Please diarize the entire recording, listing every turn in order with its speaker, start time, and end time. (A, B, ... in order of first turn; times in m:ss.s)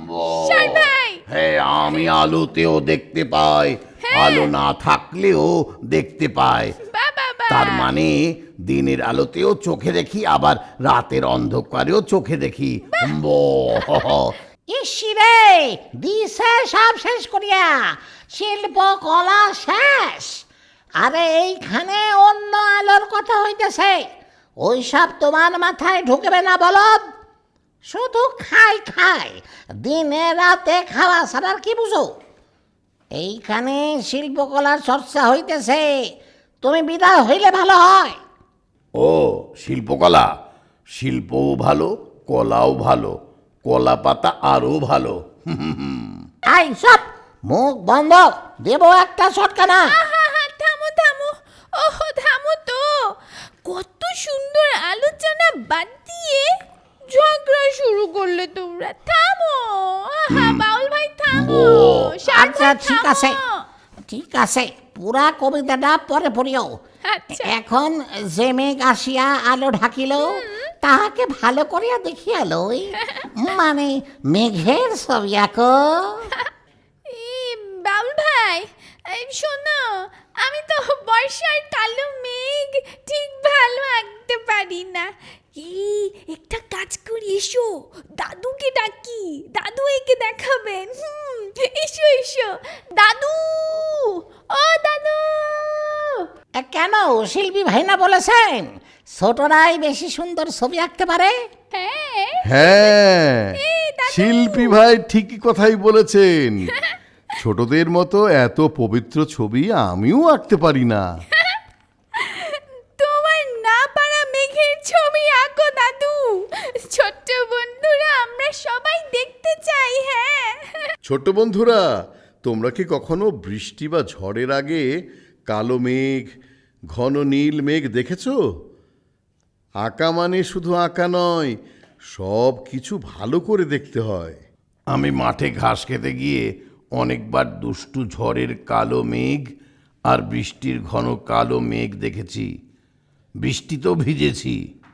0:00.3-0:01.2 A
0:01.3-0:05.4 B
0:01.3-0:03.6 C
0:04.0-0:04.5 A
0:04.2-0:06.7 C
0:05.9-0:06.7 B
0:06.8-0:07.9 A
0:07.5-0:08.1 C
0:07.6-0:08.0 B
0:08.7-0:10.1 B
0:08.7-0:14.1 C
0:12.9-0:13.2 A
0:13.8-0:14.1 A
0:14.7-0:20.4 D
0:21.0-0:24.0 D
0:24.6-0:27.0 D
0:27.8-0:32.1 D
0:33.2-0:36.1 D
0:36.6-0:38.2 D
0:39.0-0:40.2 C
0:39.6-0:40.3 B
0:41.0-0:43.1 B
0:41.1-0:41.8 C
0:42.3-0:42.8 C
0:43.7-0:45.0 C
0:43.7-0:45.2 B
0:46.5-0:49.9 D
0:49.9-0:53.0 A
0:53.6-0:56.5 A
0:57.1-1:03.6 A
1:01.4-1:02.1 C
1:02.2-1:03.4 D
1:04.1-1:06.8 D
1:07.1-1:07.5 A
1:07.4-1:16.3 D
1:10.2-1:10.7 A
1:13.0-1:13.3 A
1:17.1-1:36.2 A
1:36.6-1:41.4 D
1:41.7-1:43.0 A
1:42.4-1:46.7 B
1:43.5-1:44.8 A
1:47.4-1:51.0 B
1:52.2-2:00.9 A
2:01.0-2:01.8 B
2:02.4-2:04.9 B
2:05.5-2:06.3 B
2:06.9-2:08.4 B
2:09.8-2:11.6 B
2:12.2-2:14.4 B
2:14.9-2:16.4 C
2:15.2-2:16.4 B
2:17.0-2:19.4 B
2:17.0-2:18.9 C
2:20.1-2:22.5 B
2:20.1-2:22.0 C
2:23.4-2:24.5 B